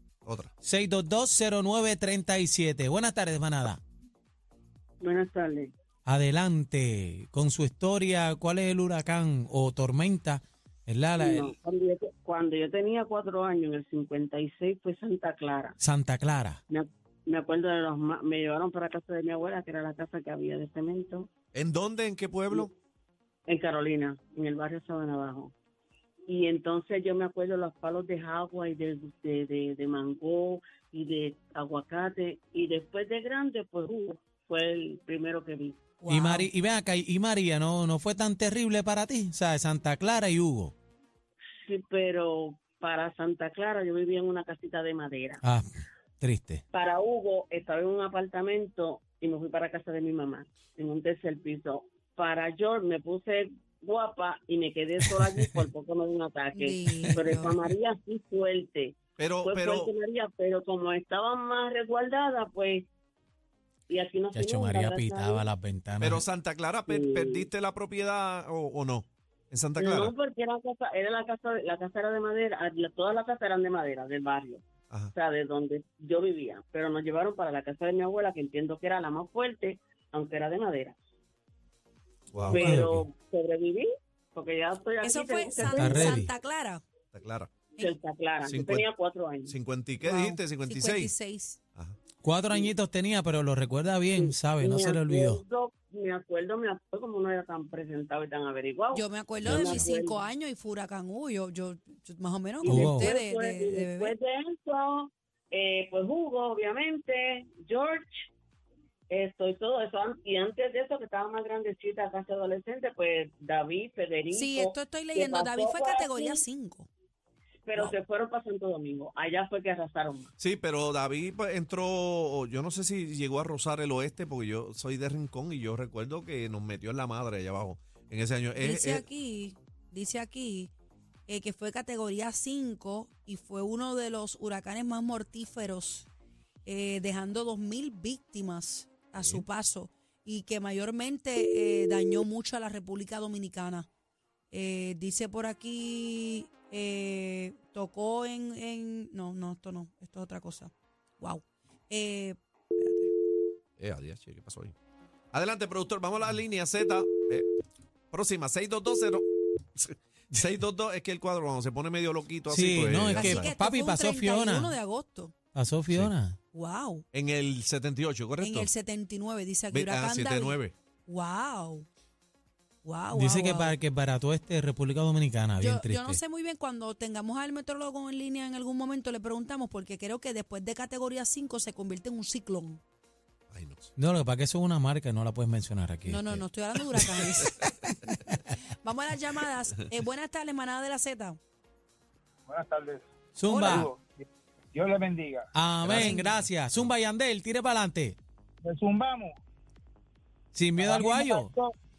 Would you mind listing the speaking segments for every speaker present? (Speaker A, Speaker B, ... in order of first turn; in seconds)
Speaker A: 0.2-0.5, 21.5-22.7, 59.2-59.9, 66.0-70.1, 82.3-82.8, 87.1-87.5, 88.4-88.9, 89.5-91.1, 99.4-99.8, 120.4-129.0, 139.2-139.4, 153.8-154.7, 155.3-157.5, 158.1-163.5, 167.1-168.7, 169.7-170.7, 183.5-183.9, 195.8-196.9
Speaker B: 0.6-3.8, 6.0-11.5, 15.8-16.6, 36.1-40.7, 46.2-46.6, 64.3-66.2, 82.5-83.0, 85.6-86.3, 92.2-95.4, 102.7-103.1, 162.5-164.7, 165.5-166.4, 173.1-176.2, 184.0-187.2, 193.3-193.9, 195.5-198.2, 200.5-201.5
Speaker C: 5.0-5.7, 11.2-15.8, 16.7-21.3, 23.4-25.5, 26.3-35.8, 41.6-45.4, 46.7-62.9, 63.9-65.5, 66.9-67.5, 69.8-80.9, 82.5-86.2, 87.8-89.5, 94.2-100.2, 102.6-108.3, 109.1-116.4, 117.7-120.3
Speaker D: 36.0-36.5, 56.5-57.5, 85.0-86.8, 90.0-91.6, 98.9-104.1, 114.3-116.9, 128.6-130.7, 131.3-136.1, 136.7-143.9, 144.5-153.1, 163.1-165.3, 166.5-167.0, 168.4-171.8, 172.8-173.8, 175.6-182.8, 186.1-191.4, 193.5-193.9, 195.9-196.3
Speaker E: 192.5-193.0, 193.6-195.5, 198.6-199.3, 200.8-201.7